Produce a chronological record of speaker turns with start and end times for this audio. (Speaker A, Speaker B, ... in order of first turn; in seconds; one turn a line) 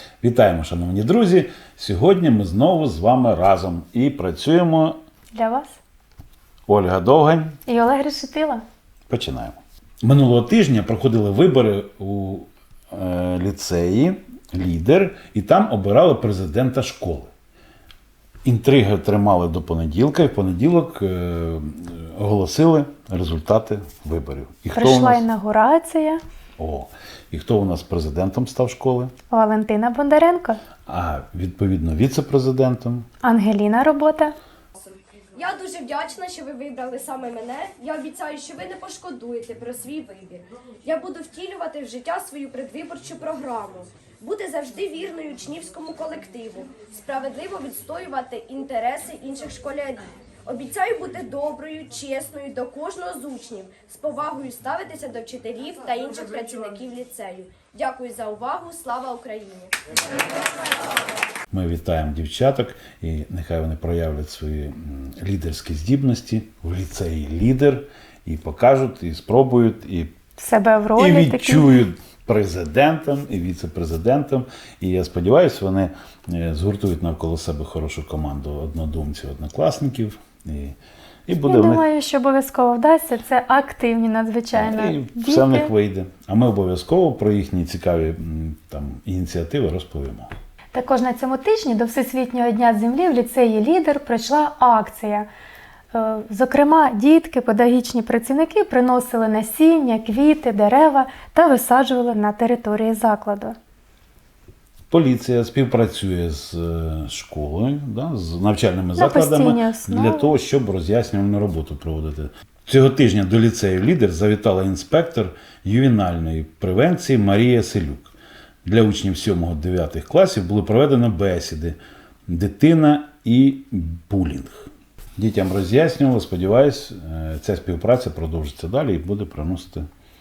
Speaker A: 0.2-5.0
Speaker B: 5.3-5.8
Speaker A: 6.7-7.6
Speaker B: 7.7-8.6
Speaker A: 9.1-17.3
Speaker A: 18.4-25.2
Speaker B: 24.8-26.2
Speaker A: 26.6-29.1
Speaker B: 29.3-30.6
Speaker A: 30.9-33.1
Speaker B: 33.2-34.4
Speaker C: 34.8-61.0
Speaker A: 61.5-70.1
Speaker B: 70.4-71.8
Speaker A: 71.0-80.8
Speaker A: 81.3-81.8
Speaker B: 81.4-85.7
Speaker A: 84.5-90.3
Speaker B: 90.7-95.3
Speaker B: 95.9-103.6
Speaker A: 104.9-118.1
Speaker B: 109.0-110.3
Speaker A: 118.7-121.8
Speaker A: 122.3-129.9